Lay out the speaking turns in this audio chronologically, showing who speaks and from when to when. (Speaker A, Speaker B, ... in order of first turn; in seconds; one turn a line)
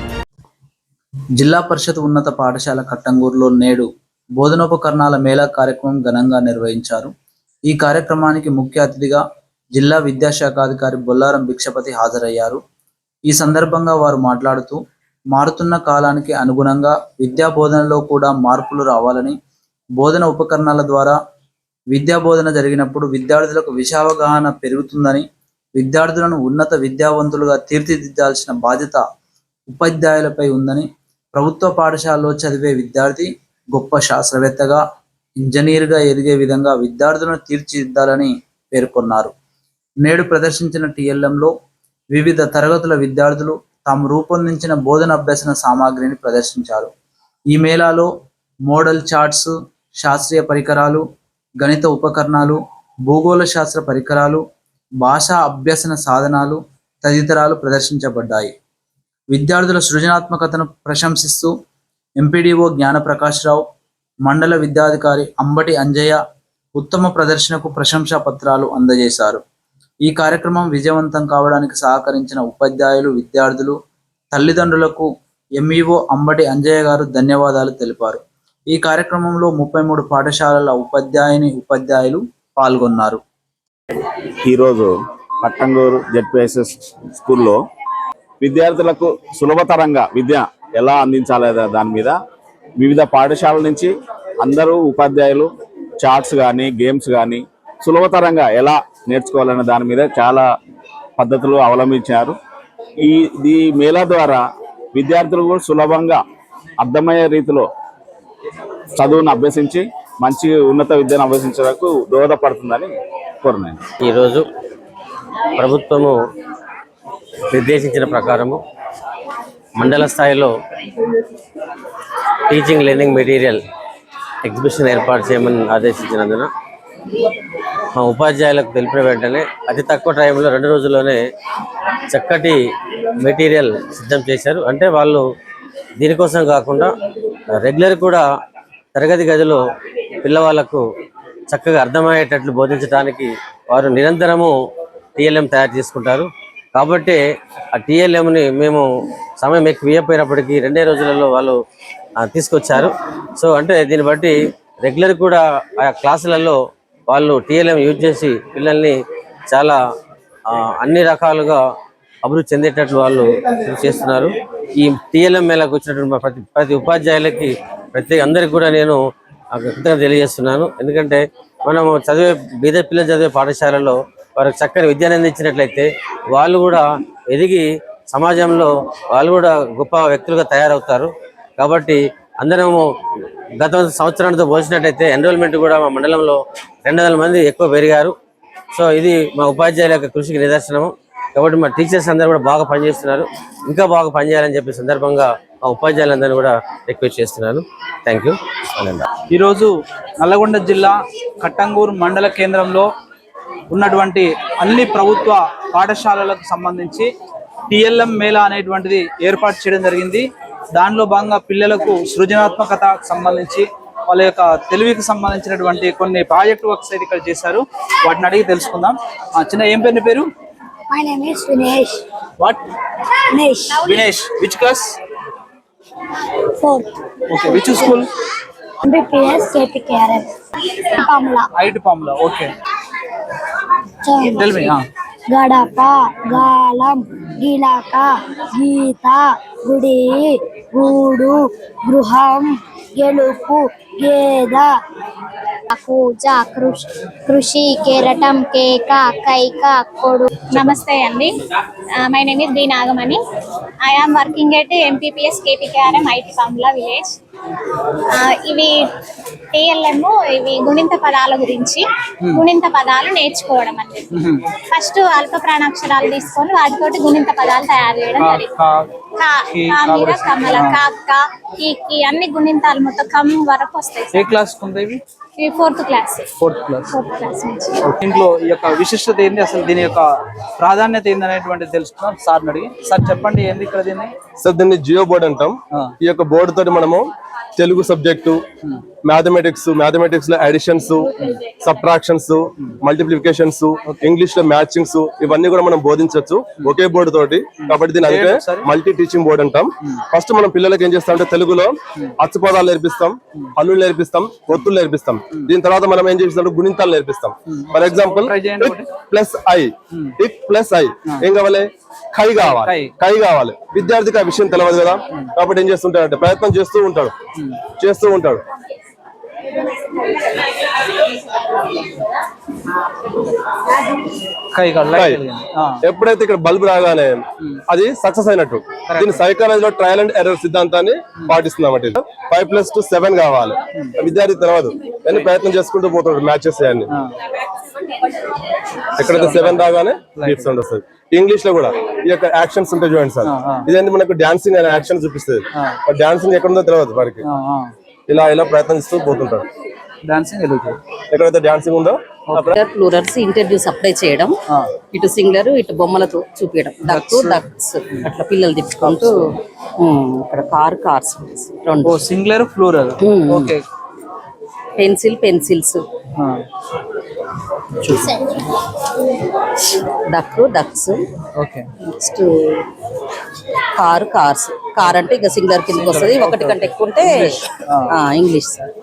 Speaker A: 1.4-3.9
Speaker A: 4.4-7.1
Speaker A: 7.7-9.2
Speaker A: 9.8-12.6
Speaker A: 13.3-14.8
Speaker A: 15.3-19.4
Speaker A: 20.0-21.2
Speaker A: 21.9-29.0
Speaker A: 29.7-34.8
Speaker A: 35.4-39.3
Speaker A: 40.0-41.5
Speaker A: 42.1-46.9
Speaker A: 47.5-48.1
Speaker A: 48.7-51.0
Speaker A: 51.6-54.4
Speaker A: 55.0-58.5
Speaker A: 59.3-61.5
Speaker A: 62.2-63.6
Speaker A: 64.3-66.2
Speaker A: 66.8-69.4
Speaker A: 70.1-73.8
Speaker A: 74.3-75.1
Speaker A: 75.6-83.2
Speaker B: 84.4-87.6
Speaker B: 88.4-92.2
Speaker B: 92.8-95.5
Speaker B: 96.0-100.5
Speaker B: 101.2-102.4
Speaker B: 103.0-104.4
Speaker B: 104.9-106.2
Speaker B: 106.8-107.7
Speaker B: 109.0-113.8
Speaker C: 114.0-114.4
Speaker C: 115.6-116.2
Speaker C: 117.5-118.6
Speaker C: 119.8-120.5
Speaker C: 122.5-123.6
Speaker C: 124.4-126.5
Speaker C: 128.0-131.2
Speaker C: 132.1-132.6
Speaker C: 133.2-135.2
Speaker C: 136.0-136.9
Speaker C: 137.6-138.2
Speaker C: 138.9-139.6
Speaker C: 140.2-140.8
Speaker C: 141.5-144.5
Speaker C: 145.2-147.2
Speaker C: 147.8-148.8
Speaker C: 149.4-151.6
Speaker C: 152.2-156.6
Speaker C: 157.1-158.9
Speaker C: 159.5-159.8
Speaker C: 160.5-161.6
Speaker C: 162.2-169.0
Speaker C: 169.5-182.8
Speaker C: 183.6-188.1
Speaker C: 188.7-199.1
Speaker D: 199.3-202.9
Speaker D: 203.7-207.1
Speaker D: 207.7-220.3
Speaker E: 220.9-222.0
Speaker E: 223.3-223.8
Speaker D: 223.8-225.0
Speaker E: 226.6-226.9
Speaker D: 227.3-228.1
Speaker E: 227.4-228.0
Speaker E: 228.8-230.3
Speaker E: 231.0-231.5
Speaker D: 231.6-232.5
Speaker E: 234.0-234.8
Speaker D: 234.4-234.9
Speaker E: 235.3-244.8
Speaker F: 245.7-251.3
Speaker F: 252.0-253.2
Speaker F: 253.8-257.1
Speaker F: 258.1-258.8
Speaker F: 259.5-264.1
Speaker D: 264.1-264.4
Speaker F: 264.7-268.6
Speaker D: 268.2-268.9
Speaker F: 269.1-274.3
Speaker D: 269.5-270.8
Speaker D: 274.2-275.0
Speaker F: 275.4-276.3
Speaker D: 276.4-276.9
Speaker F: 276.9-277.9
Speaker D: 277.9-284.1
Speaker G: 284.4-288.4
Speaker G: 289.0-317.2
Speaker D: 297.7-298.7
Speaker D: 307.5-308.9
Speaker D: 312.4-312.9
Speaker G: 317.7-318.4
Speaker D: 324.6-325.7
Speaker G: 324.9-325.2
Speaker G: 325.8-336.9
Speaker D: 328.9-329.2
Speaker G: 339.0-347.2
Speaker D: 339.1-340.6
Speaker D: 343.3-343.7
Speaker D: 347.3-347.7
Speaker G: 348.1-349.5
Speaker D: 350.1-350.8
Speaker G: 351.1-352.6
Speaker H: 352.5-354.4
Speaker H: 354.9-359.2
Speaker D: 356.9-357.4
Speaker H: 359.8-362.0
Speaker D: 361.8-363.6
Speaker H: 363.0-363.6
Speaker H: 364.8-365.8
Speaker D: 367.9-368.1
Speaker H: 370.1-371.0
Speaker D: 371.4-371.7
Speaker H: 371.9-372.6
Speaker H: 373.8-378.6
Speaker D: 375.7-377.8